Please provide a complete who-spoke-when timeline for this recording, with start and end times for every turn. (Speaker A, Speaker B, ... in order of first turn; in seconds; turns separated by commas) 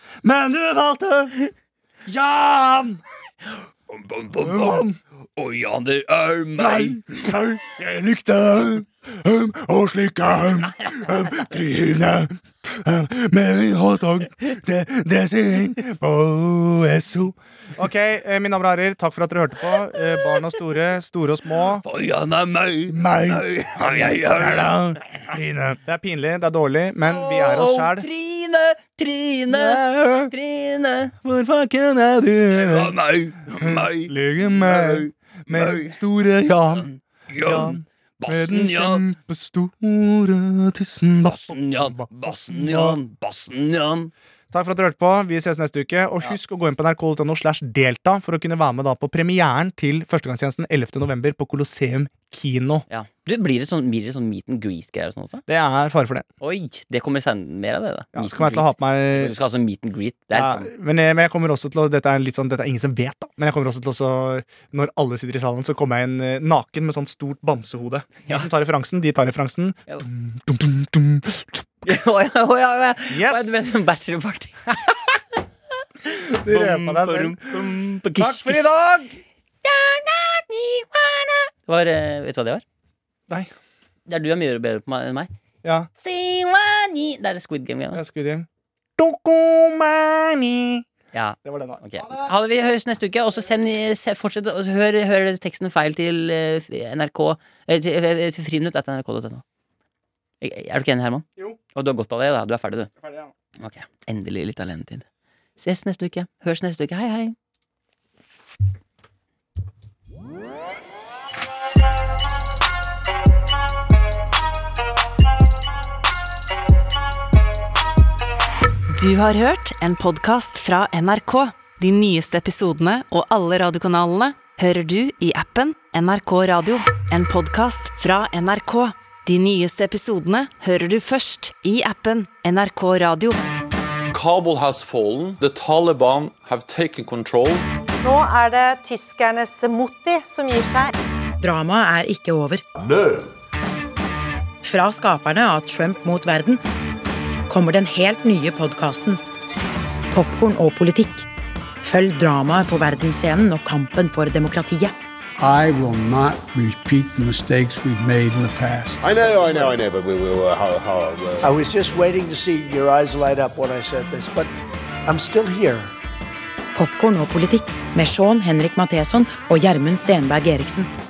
Speaker A: 0.2-1.3, Speaker A: 2.0-3.0, Speaker B: 3.9-4.8, Speaker A: 4.4-5.0, Speaker B: 5.4-7.3, Speaker A: 6.6-21.8, Speaker B: 21.8-25.2, Speaker A: 22.9-28.1, Speaker B: 27.0-31.1, Speaker A: 29.5-30.3, Speaker A: 31.2-32.9, Speaker B: 32.5-36.0, Speaker A: 33.6-36.9, Speaker B: 36.7-39.1, Speaker A: 37.4-43.0, Speaker B: 41.2-44.1, Speaker A: 44.5-52.8, Speaker B: 52.9-55.4, Speaker A: 55.5-56.3, Speaker B: 56.4-60.7, Speaker A: 58.1-59.3, Speaker A: 60.3-71.7, Speaker B: 71.8-74.8, Speaker A: 73.1-73.6, Speaker B: 76.1-78.6, Speaker A: 76.1-79.2, Speaker B: 79.6-82.6, Speaker B: 84.1-85.3, Speaker A: 85.6-85.9, Speaker B: 86.0-88.0, Speaker A: 87.9-90.8, Speaker B: 91.1-99.4, Speaker A: 91.4-92.3, Speaker B: 100.4-102.9, Speaker A: 103.0-103.3, Speaker B: 103.6-105.0, Speaker B: 105.6-107.3, Speaker C: 118.9-133.4, Speaker D: 134.1-137.7, Speaker E: 138.0-140.9, Speaker F: 141.4-142.6, Speaker F: 144.6-146.6, Speaker F: 147.5-149.2, Speaker F: 150.1-151.3, Speaker F: 151.8-154.9, Speaker G: 155.4-159.7, Speaker H: 159.0-161.5, Speaker I: 161.4-164.5, Speaker I: 165.1-165.9, Speaker F: 166.7-170.9